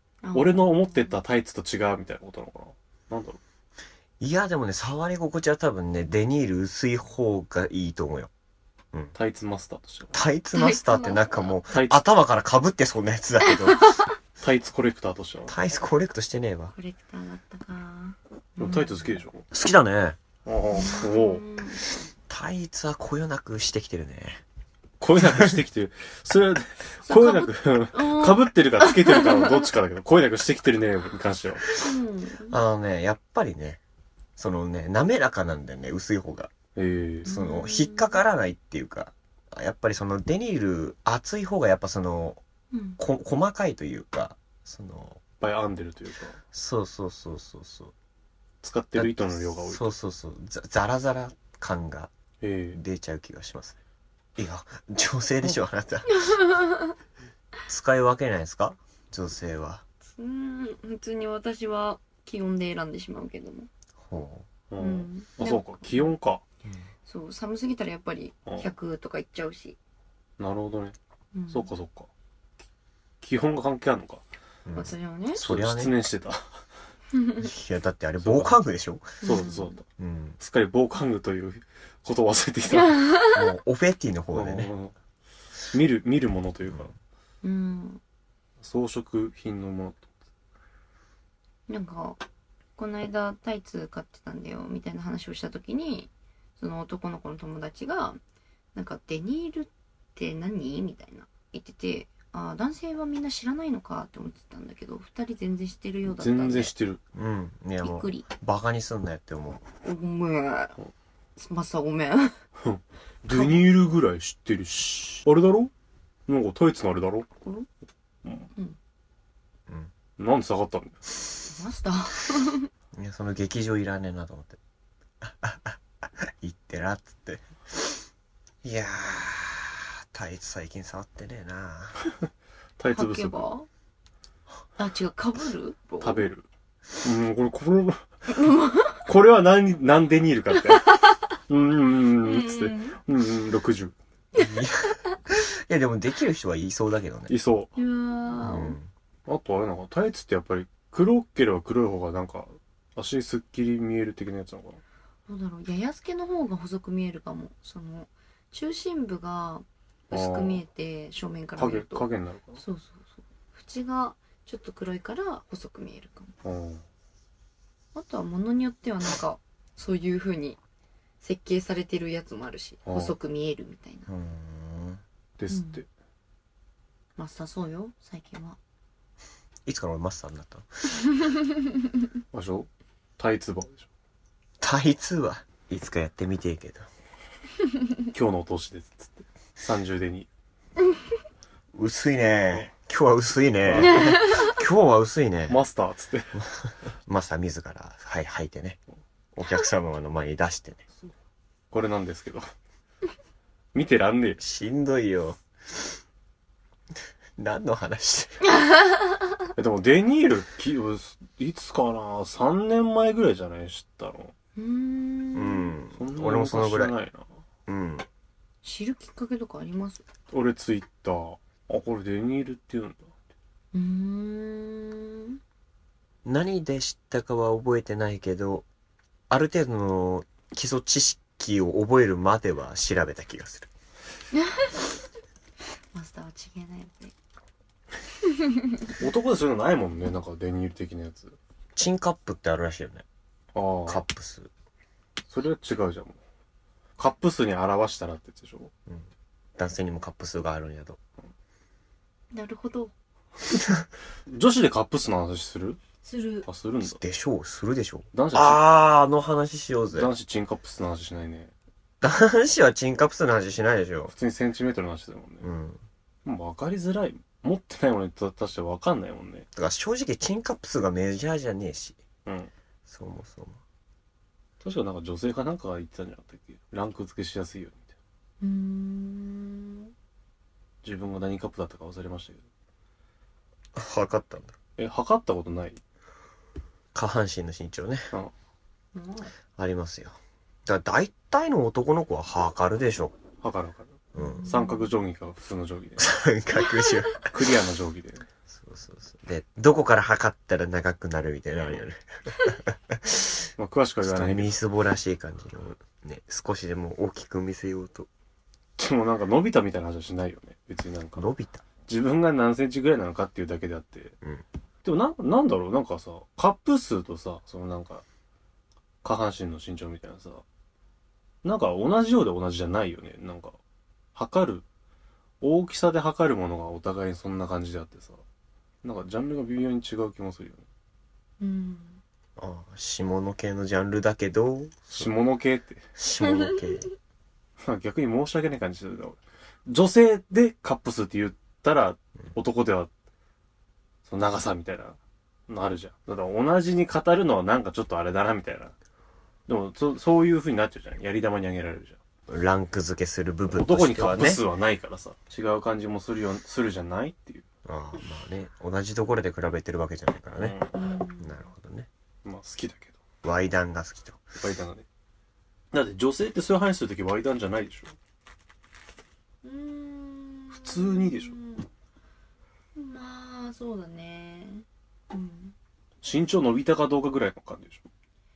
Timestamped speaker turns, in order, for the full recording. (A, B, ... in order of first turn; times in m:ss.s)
0:00.2-0:01.1 A
0:00.3-0:03.4 B
0:04.2-0:08.3 C
0:09.1-0:10.2 B
0:10.1-0:14.0 C
0:10.5-0:11.5 A
0:11.7-0:12.0 B
0:13.4-0:14.1 A
0:14.4-0:15.5 B
0:15.5-0:16.7 C
0:16.7-0:19.2 A
0:18.6-0:19.4 B
0:19.5-0:20.2 C
0:20.4-0:21.4 B
0:20.7-0:21.8 A
0:22.3-0:24.4 C
0:25.0-0:31.7 B
0:27.0-0:29.5 A
0:31.7-0:32.6 A
0:32.5-0:33.8 C
0:34.4-0:36.5 C
0:36.8-0:37.3 B
0:37.2-0:42.4 C
0:37.2-0:38.2 A
0:42.7-0:43.0 A
0:43.0-0:45.2 C
0:45.4-0:46.4 B
0:46.5-0:47.9 C
0:48.6-0:50.0 B
0:48.9-0:52.1 C
0:52.4-0:52.8 B
0:52.7-0:53.8 C
0:54.4-0:56.2 C
0:56.1-0:56.9 A
0:57.7-0:59.8 C
1:00.2-1:03.7 A
1:04.0-1:04.5 C
1:04.7-1:06.4 B
1:04.8-1:06.2 A
1:07.0-1:09.8 A
1:10.4-1:11.0 B
1:11.3-1:11.7 A
1:11.5-1:12.1 B
1:13.2-1:14.2 B
1:14.7-1:16.0 C
1:14.8-1:15.4 A
1:15.4-1:16.5 B
1:17.1-1:17.5 A
1:17.4-1:19.2 C
1:18.2-1:18.6 B
1:19.2-1:19.8 A
1:19.2-1:19.8 B
1:20.0-1:20.4 C
1:20.4-1:23.0 B
1:22.7-1:23.5 A
1:23.3-1:24.7 C
1:24.3-1:24.9 B
1:25.7-1:26.9 B
1:27.4-1:28.0 A
1:28.6-1:30.1 B
1:31.7-1:32.2 A
1:32.8-1:38.2 A
1:38.7-1:46.7 A
1:46.1-1:47.0 B
1:47.1-1:49.6 C
1:47.8-1:48.3 A
1:49.8-1:50.8 A
1:51.4-1:52.4 A
1:52.6-1:55.7 B
1:53.3-1:53.7 A
1:56.3-1:57.3 B
1:57.4-1:57.7 A
1:58.2-1:58.5 B
2:00.2-2:01.0 B
2:01.4-2:02.7 A
2:03.0-2:04.6 C
2:05.2-2:07.9 C
2:08.6-2:12.0 C
2:12.8-2:13.5 B
2:12.9-2:13.7 A
2:14.8-2:16.3 A
2:16.0-2:16.5 B
2:17.0-2:18.0 B
2:18.4-2:19.0 A
2:19.0-2:20.9 B
2:20.9-2:21.2 A
2:21.5-2:23.9 B
2:22.2-2:23.0 A
2:24.3-2:27.3 C
2:27.3-2:27.7 B
2:27.8-2:28.8 A
2:28.4-2:28.9 C
2:29.2-2:34.8 B
2:35.3-2:46.3 A
2:40.1-2:40.6 B
2:41.6-2:42.6 B
2:46.4-2:46.8 B
2:47.9-2:50.6 A
2:51.2-2:54.1 A
2:52.8-2:53.1 B
2:54.1-2:55.0 C
2:55.4-2:55.9 B
2:55.5-2:55.8 A
2:57.2-2:58.6 A
2:59.6-3:00.7 C
3:02.3-3:03.9 B
3:04.6-3:06.8 C
3:08.1-3:10.3 B
3:11.8-3:15.6 C
3:13.6-3:14.1 B
3:13.9-3:14.5 A
3:15.5-3:16.4 B
3:16.6-3:18.8 C
3:19.3-3:20.8 C
3:21.7-3:22.5 B
3:23.7-3:24.4 B
3:24.4-3:25.4 C
3:27.4-3:28.4 C
3:29.6-3:34.3 B
3:34.6-3:35.7 A
3:35.3-3:36.9 C
3:36.0-3:37.3 B
3:37.7-3:38.1 C
3:38.6-3:40.0 A
3:40.3-3:43.1 B
3:43.7-3:45.4 A
3:46.2-3:48.6 C
3:49.3-3:53.7 C
3:54.3-3:54.8 A
3:55.9-3:57.1 A
3:59.0-4:01.4 B
4:01.8-4:03.0 C
4:03.5-4:04.0 B
4:03.8-4:04.5 C
4:05.3-4:06.2 B
4:07.0-4:08.7 B
4:08.9-4:11.0 C
4:12.3-4:12.9 A
4:14.3-4:15.8 B
4:16.0-4:16.5 A
4:16.4-4:17.0 B
4:16.8-4:20.1 C
4:18.1-4:18.6 B
4:19.9-4:21.5 B
4:22.0-4:24.1 C
4:24.1-4:25.5 B
4:25.4-4:25.8 C
4:26.2-4:29.4 B
4:29.5-4:32.0 C
4:32.2-4:32.5 B
4:32.9-4:33.6 C
4:34.6-4:37.9 B
4:38.4-4:39.9 A
4:40.8-4:42.4 B
4:43.7-4:44.6 C
4:44.8-4:45.8 B
4:46.9-4:48.1 C
4:48.9-4:49.3 A
4:49.6-4:53.1 C
4:53.4-4:56.1 B
4:54.1-4:54.5 C
4:54.2-4:54.9 A
4:56.0-4:57.3 C
4:57.2-4:58.2 B
4:58.5-5:03.4 C
5:03.6-5:04.6 B
5:04.0-5:08.1 C
5:08.8-5:11.3 B
5:11.2-5:11.6 C
5:11.9-5:14.1 B
5:14.8-5:18.0 B
5:19.0-5:20.4 B
5:21.4-5:23.6 B
5:24.1-5:24.6 B
5:25.4-5:28.2 B
5:28.8-5:30.6 B
5:31.4-5:32.0 A
5:32.4-5:35.1 C
5:34.9-5:35.9 B
5:36.0-5:36.9 C
5:36.2-5:36.6 A
5:37.6-5:42.9 B
5:44.0-5:45.0 B
5:45.5-5:48.7 B
5:49.5-5:52.0 B
5:52.3-5:54.4 C
5:53.5-5:57.4 B
5:57.6-6:00.6 C
6:00.4-6:00.8 B
6:00.7-6:01.5 A
6:01.2-6:01.9 C
6:02.2-6:03.0 B
6:03.2-6:04.3 C
6:04.4-6:04.8 B
6:05.7-6:07.9 B
6:09.4-6:11.6 A
6:10.5-6:11.4 B
6:12.7-6:15.5 A
6:16.0-6:17.9 B